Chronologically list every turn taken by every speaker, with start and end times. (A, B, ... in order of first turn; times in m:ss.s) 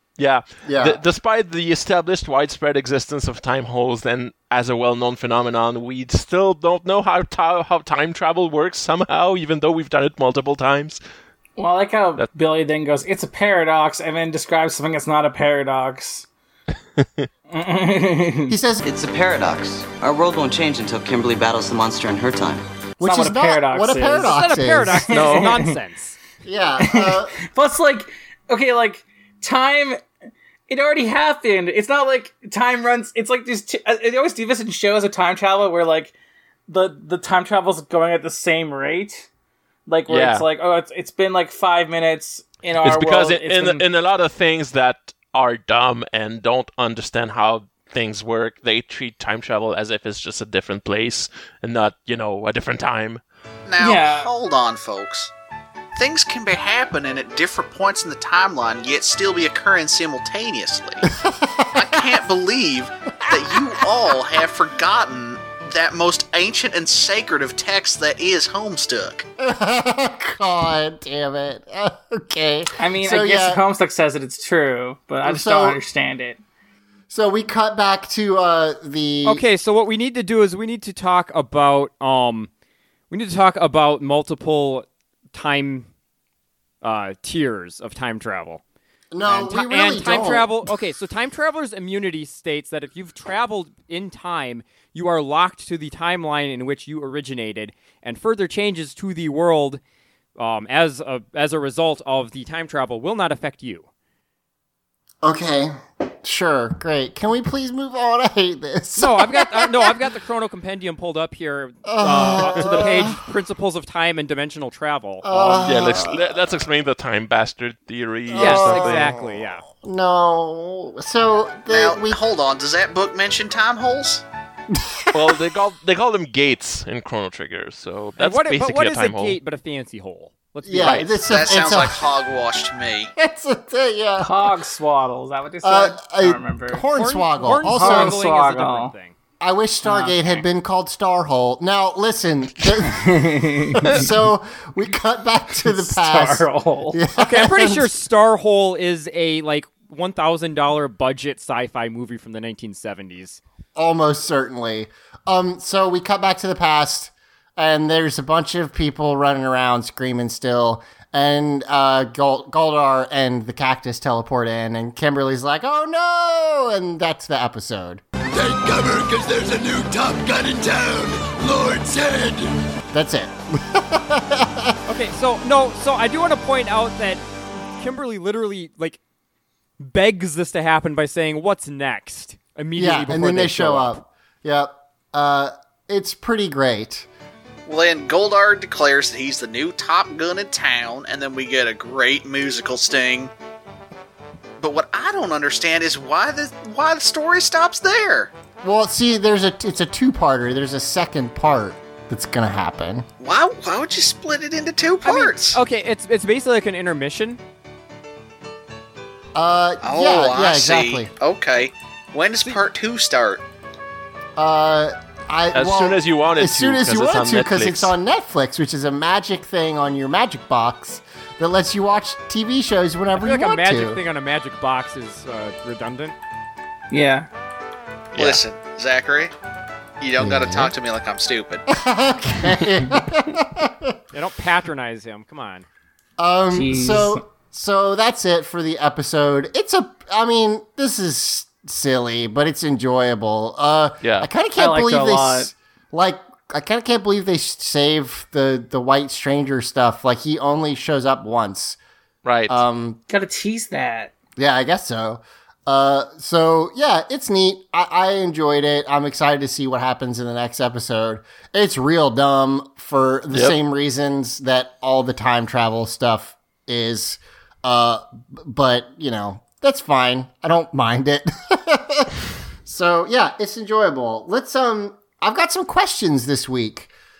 0:00.2-0:11.0 A
0:00.6-0:01.0 B
0:11.6-0:16.2 C
0:17.0-0:17.3 A
0:17.5-0:18.5 C
0:18.5-0:18.8 B
0:18.8-0:22.6 D
0:23.0-0:25.1 B
0:23.0-0:25.7 C
0:24.3-0:26.2 E
0:25.1-0:25.5 A
0:26.4-0:27.4 B
0:26.9-0:30.0 C
0:30.7-0:36.1 C
0:36.7-0:39.2 C
0:39.9-0:43.8 C
0:40.1-0:40.5 A
0:42.8-0:53.2 A
0:53.7-0:55.3 F
0:53.8-0:54.3 C
0:55.9-1:01.0 F
1:01.0-1:02.2 B
1:01.7-1:09.2 F
1:03.2-1:03.8 B
1:09.4-1:13.6 B
1:12.8-1:16.4 C
1:15.2-1:15.8 B
1:17.1-1:19.4 B
1:19.2-1:22.5 E
1:23.1-1:25.9 E
1:26.8-1:28.6 E
1:29.1-1:30.6 B
1:29.2-1:39.8 E
1:40.4-1:43.9 E
1:45.2-1:50.0 B
1:49.0-1:55.7 E
1:51.8-1:53.2 B
1:55.2-1:56.5 B
1:55.6-1:59.1 A
1:58.3-2:02.2 B
1:58.3-1:59.6 E
2:01.7-2:04.2 F
2:04.7-2:05.4 B
2:05.1-2:09.4 A
2:08.2-2:11.2 E
2:10.6-2:12.0 B
2:11.2-2:13.1 F
2:13.2-2:14.5 B
2:14.2-2:16.8 C
2:15.6-2:18.2 B
2:16.9-2:19.1 E
2:17.7-2:18.9 C
2:19.4-2:27.9 B
2:19.8-2:20.4 C
2:22.9-2:24.1 C
2:25.6-2:27.0 C
2:27.2-2:33.4 E
2:33.8-2:48.0 B
2:48.3-2:52.6 G
2:52.9-2:54.8 B
2:54.9-2:59.0 E
2:59.8-3:04.0 E
3:02.8-3:07.1 B
3:07.6-3:13.3 F
3:14.6-3:18.3 F
3:18.6-3:23.1 B
3:23.2-3:25.6 F
3:25.0-3:27.4 E
3:29.3-3:31.1 B
3:29.8-3:33.4 F
3:34.4-3:44.0 B
3:35.5-3:37.9 A
3:43.2-3:46.1 E
3:46.9-3:47.3 C
3:48.1-3:49.3 F
3:50.0-3:51.6 F
3:50.2-3:50.7 B
3:51.7-3:54.0 B
3:54.1-3:55.6 E
3:56.2-4:11.8 B
3:56.5-3:57.2 C
4:04.0-4:04.3 A
4:04.6-4:05.5 C
4:12.2-4:12.6 A
4:12.5-4:13.0 B
4:13.1-4:14.1 C
4:14.4-4:36.9 B